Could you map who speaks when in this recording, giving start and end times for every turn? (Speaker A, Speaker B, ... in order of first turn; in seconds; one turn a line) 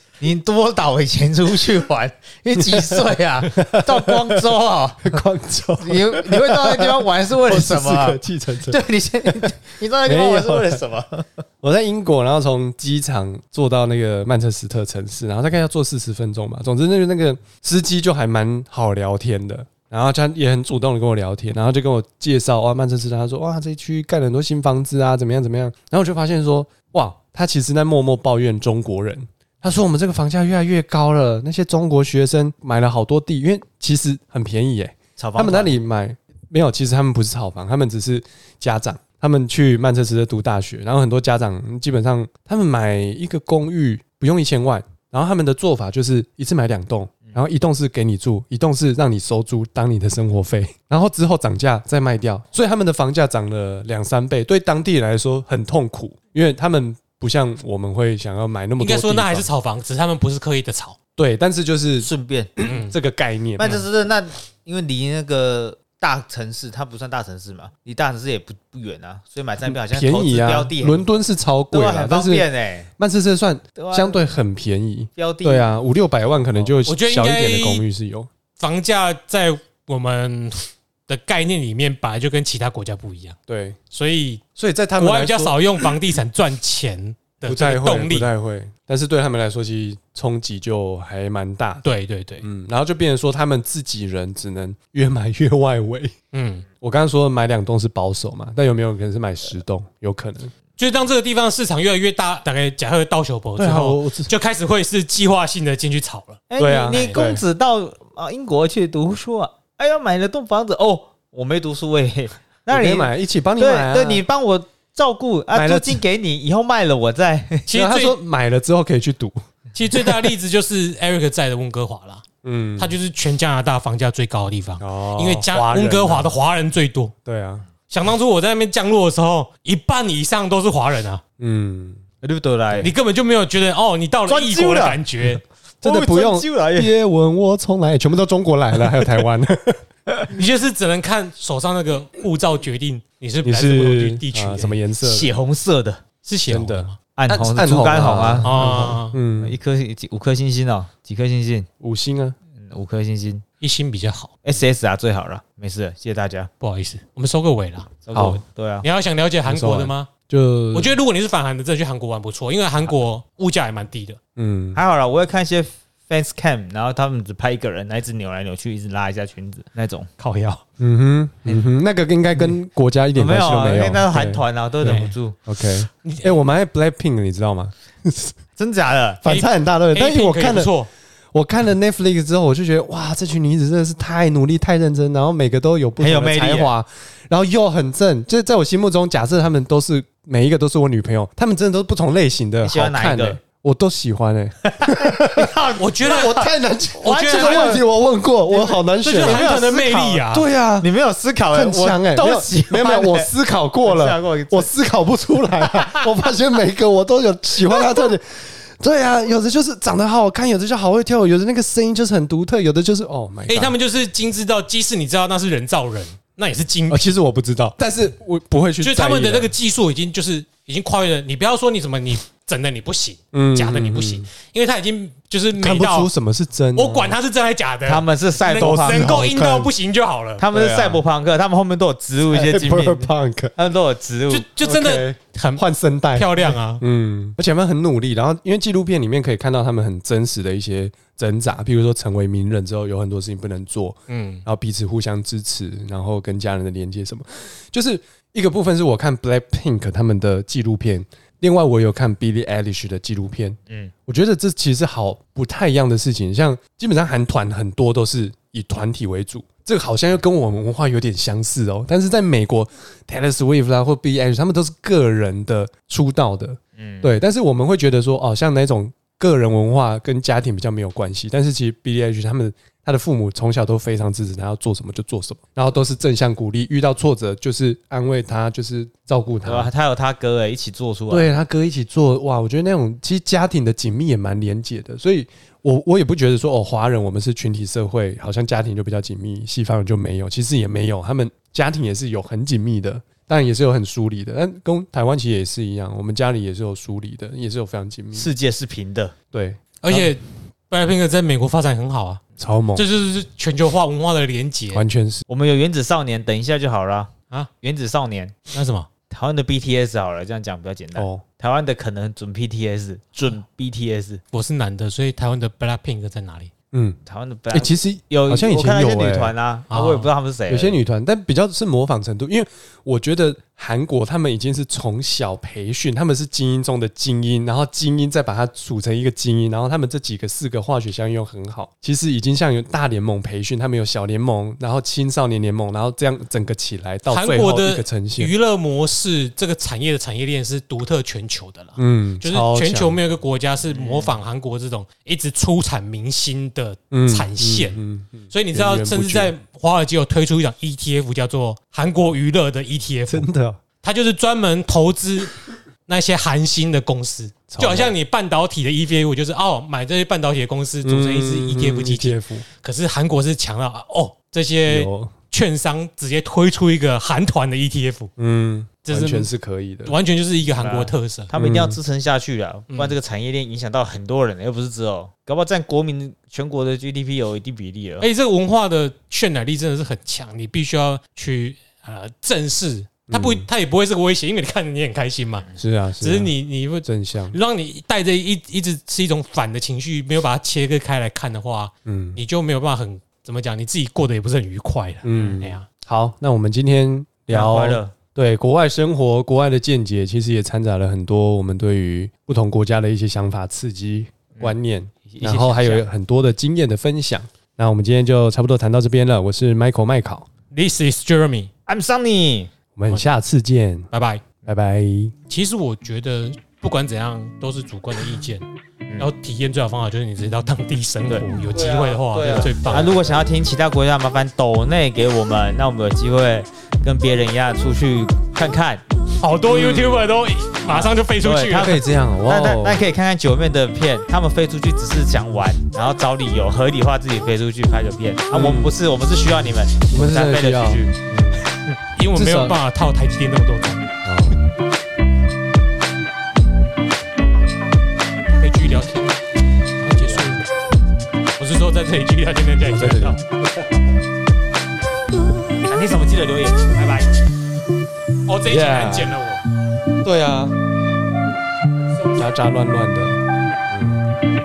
Speaker A: 0.2-5.2
Speaker B: 2.5-3.0
Speaker B: 3.5-4.4
Speaker B: 5.0-10.8
Speaker A: 5.8-11.4
Speaker B: 11.6-59.5
Speaker A: 35.2-35.8
Speaker C: 58.8-61.0
Speaker B: 61.2-63.8
Speaker A: 62.0-62.5
Speaker C: 62.6-62.9
Speaker A: 63.6-71.0
Speaker B: 69.7-72.5
Speaker A: 71.7-72.9
Speaker B: 73.0-78.3
Speaker A: 73.8-74.2
Speaker A: 75.2-75.7
Speaker C: 76.8-77.8
Speaker C: 78.6-83.4
Speaker B: 83.5-83.8
Speaker C: 83.9-84.4
Speaker B: 84.6-85.9
Speaker C: 85.0-88.3
Speaker B: 87.5-91.9
Speaker C: 91.8-92.5
Speaker B: 92.4-96.1
Speaker C: 96.3-96.7
Speaker B: 96.8-100.5
Speaker C: 100.8-106.4
Speaker B: 103.6-104.3
Speaker A: 106.5-117.7
Speaker B: 106.6-107.4
Speaker B: 112.7-114.2
Speaker B: 115.5-116.0
Speaker C: 117.7-118.2
Speaker B: 117.7-119.4
Speaker C: 119.8-122.2
Speaker B: 122.4-123.0
Speaker C: 122.8-127.1
Speaker B: 124.8-126.3
Speaker B: 127.2-127.7
Speaker C: 127.9-131.2
Speaker B: 131.4-132.0
Speaker A: 132.2-132.9
Speaker C: 132.8-135.4
Speaker A: 134.3-135.0
Speaker A: 135.8-136.9
Speaker B: 135.8-139.8
Speaker C: 140.3-144.8
Speaker B: 143.4-145.3
Speaker A: 145.1-146.0
Speaker C: 146.2-146.9
Speaker B: 146.5-149.6
Speaker A: 147.2-148.5
Speaker C: 148.4-149.2
Speaker A: 149.4-151.7
Speaker B: 151.8-152.4
Speaker A: 152.6-153.4
Speaker C: 153.6-154.4
Speaker A: 154.4-156.5
Speaker C: 156.6-158.1
Speaker A: 158.1-158.9
Speaker B: 158.1-158.4
Speaker C: 158.8-160.1
Speaker B: 159.4-161.0
Speaker C: 160.7-164.2
Speaker B: 164.4-164.8
Speaker A: 164.8-170.1
Speaker C: 170.2-170.6
Speaker B: 170.8-178.3
Speaker A: 173.2-175.4
Speaker C: 174.8-175.1
Speaker C: 176.0-176.3
Speaker A: 178.6-179.2
Speaker B: 179.2-180.7
Speaker C: 179.3-180.9
Speaker B: 181.3-199.5
Speaker A: 186.0-186.7
Speaker A: 192.6-193.4
Speaker A: 194.7-196.5
Speaker C: 195.8-196.4
Speaker A: 197.0-197.8
Speaker C: 197.0-197.8
Speaker A: 198.5-200.3
Speaker C: 199.0-200.5
Speaker B: 200.3-200.9
Speaker A: 200.8-203.3
Speaker B: 201.5-213.8
Speaker A: 203.8-204.7
Speaker C: 213.5-217.1
Speaker B: 216.9-219.5
Speaker C: 218.8-226.1
Speaker B: 223.3-224.3
Speaker B: 225.6-227.2
Speaker C: 226.8-230.4
Speaker A: 227.9-229.2
Speaker B: 228.6-229.7
Speaker A: 230.4-234.5
Speaker B: 230.5-231.0
Speaker B: 232.3-233.5
Speaker C: 234.3-235.6
Speaker B: 234.6-279.7
Speaker C: 236.2-236.8
Speaker C: 244.1-244.4
Speaker A: 266.8-267.2
Speaker A: 279.4-281.3
Speaker B: 281.1-298.3
Speaker A: 298.1-299.1
Speaker B: 299.3-300.1
Speaker C: 299.8-302.2
Speaker B: 302.4-302.9
Speaker C: 302.8-304.9
Speaker B: 304.7-305.2
Speaker A: 305.3-308.4
Speaker C: 308.5-308.9
Speaker A: 309.1-314.2
Speaker B: 311.0-311.2
Speaker C: 314.3-316.5
Speaker B: 316.7-317.0
Speaker A: 317.1-320.8
Speaker B: 317.5-319.3
Speaker C: 319.7-320.1
Speaker B: 320.5-338.3
Speaker C: 337.1-347.8
Speaker B: 341.8-343.0
Speaker A: 343.7-344.1
Speaker B: 346.9-349.3
Speaker C: 348.3-353.3
Speaker B: 353.1-353.6
Speaker C: 353.8-355.3
Speaker C: 355.9-368.1
Speaker B: 357.5-357.9
Speaker B: 360.8-362.4
Speaker B: 364.7-365.1
Speaker B: 368.2-369.9
Speaker C: 368.9-369.3
Speaker C: 369.9-371.3
Speaker A: 370.6-378.1
Speaker B: 371.3-371.8
Speaker C: 378.0-385.5
Speaker B: 383.1-383.5
Speaker B: 385.6-387.4
Speaker C: 386.0-395.6
Speaker B: 391.9-392.2
Speaker B: 395.0-410.3
Speaker A: 397.3-397.9
Speaker A: 405.1-405.8
Speaker C: 410.5-411.5
Speaker A: 411.7-412.5
Speaker B: 412.8-413.9
Speaker C: 413.9-414.2
Speaker B: 414.4-415.1
Speaker C: 415.3-418.5
Speaker C: 419.0-423.2
Speaker B: 421.5-423.1
Speaker A: 422.3-428.8
Speaker C: 429.2-431.8
Speaker B: 429.5-430.1
Speaker A: 430.7-440.9
Speaker B: 431.5-432.8
Speaker B: 438.3-438.7
Speaker B: 439.9-441.4
Speaker C: 442.0-443.9
Speaker B: 442.1-442.6
Speaker B: 444.0-444.4
Speaker C: 448.4-449.2
Speaker C: 449.8-450.5
Speaker C: 451.4-453.2
Speaker B: 452.6-453.7
Speaker A: 455.7-457.1
Speaker C: 458.3-459.4
Speaker B: 458.5-459.1
Speaker B: 460.0-460.5
Speaker B: 462.1-464.0